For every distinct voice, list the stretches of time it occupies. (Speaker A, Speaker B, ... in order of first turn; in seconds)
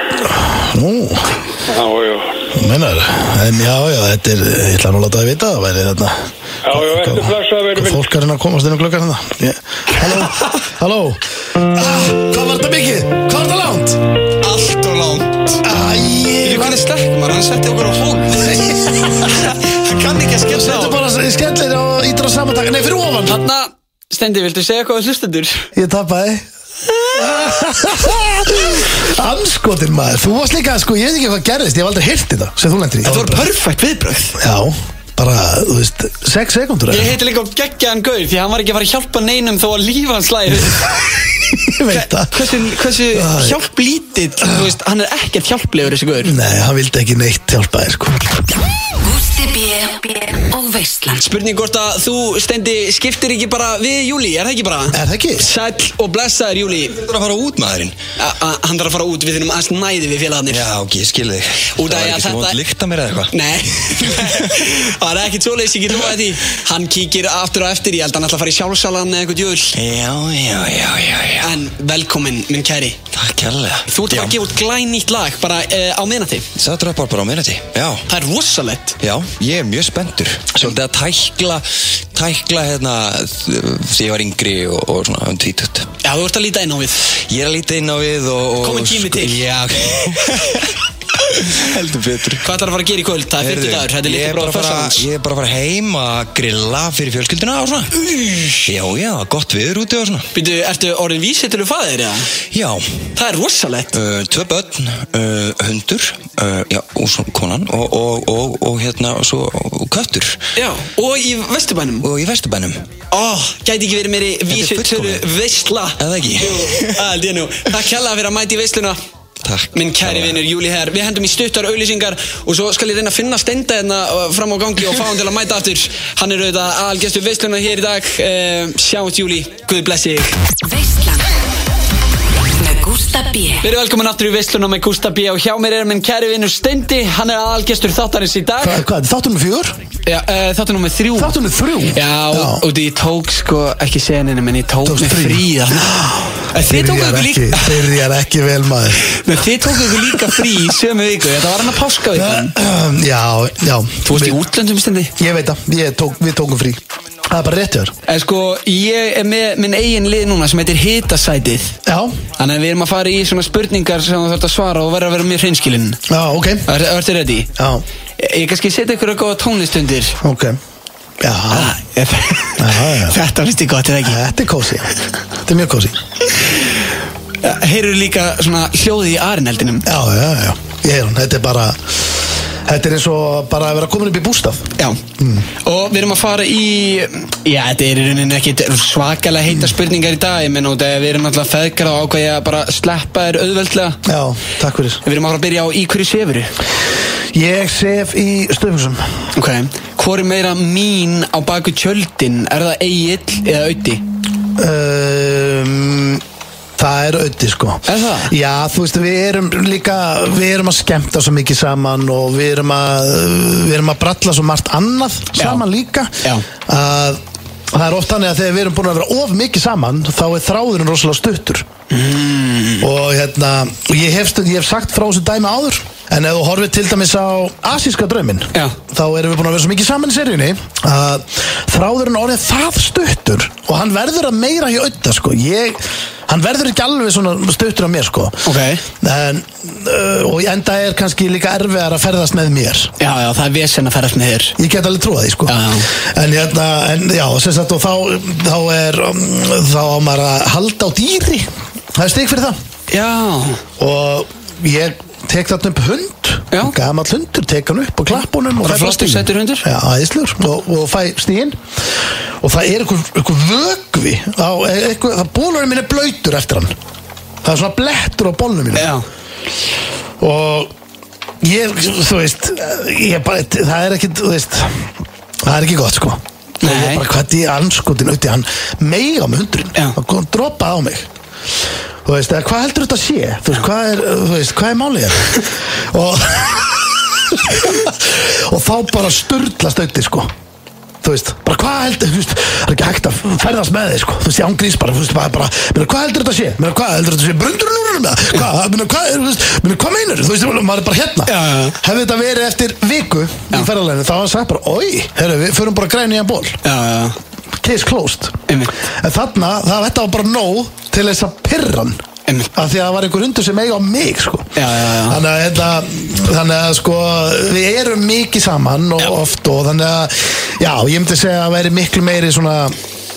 Speaker A: 0.2-1.4, 2.5-14.0, 15.6-16.9, 18.4-19.5, 20.5-23.4, 25.7-26.4, 27.1-33.5, 34.4-37.1, 41.5-42.5, 43.1-43.6, 44.4-44.7, 46.2-48.5, 54.9-55.5, 138.6-139.7, 141.2-142.6, 144.8-149.1, 149.9-150.3, 152.1-154.4, 155.2-157.9, 161.8-162.2, 166.1-166.7, 167.6-167.8, 170.2-170.6, 171.2-171.7, 172.6-173.2, 174.0-174.9, 175.4-176.0, 179.8-185.4, 194.0-195.0, 197.3-199.3, 204.6-206.2, 206.8-216.1, 216.7-217.2, 217.7-221.7, 222.8-238.5, 239.0-242.9, 244.6-252.6, 253.8-261.6, 262.4-266.7, 267.4-268.9, 270.2-270.7, 271.4-274.9, 275.4-281.1, 282.0-290.3, 291.0-306.6, 307.6-312.0, 312.5-322.8
Speaker B: 1.7-2.5, 6.6-8.1
Speaker C: 14.4-15.6, 16.4-21.0, 23.2-25.7, 26.9-27.5, 33.0-34.4, 36.9-41.1, 41.9-46.4, 51.2-57.0, 58.2-60.7, 61.8-62.6, 63.3-69.8, 71.4-73.0, 73.9-76.5, 78.1-79.0, 86.0-87.1, 88.6-89.4, 92.4-95.0, 98.2-98.5, 100.3-102.3, 103.1-103.9, 110.5-112.1, 113.1-119.0, 119.7-130.4, 133.6-138.8, 140.1-141.4, 141.9-147.8, 149.1-152.5, 154.0-155.1, 158.1-161.8, 162.4-166.0, 166.7-167.5, 168.2-170.2, 171.5-174.2, 176.3-176.7, 177.4-179.9, 185.6-194.0, 195.0-196.5, 199.3-204.0, 207.8-208.3, 215.3-215.6, 221.9-222.9, 238.4-238.8, 243.0-244.6, 245.5-245.9, 252.9-253.6, 258.6-259.6, 268.7-269.0, 276.6-277.0, 301.2-301.8, 306.6-307.2, 308.5-308.7, 314.6-315.2
Speaker D: 49.0-51.2, 130.6-131.3, 132.6-133.7
Speaker E: 56.9-58.0, 60.5-63.3, 63.9-64.7, 69.7-71.5, 73.1-74.4, 76.5-78.0, 79.0-85.9, 87.3-90.7, 91.3-92.5, 93.4-98.1, 98.6-100.3, 102.5-103.0, 103.9-110.4, 112.0-112.9, 114.5-115.2, 116.0-117.0, 119.4-120.4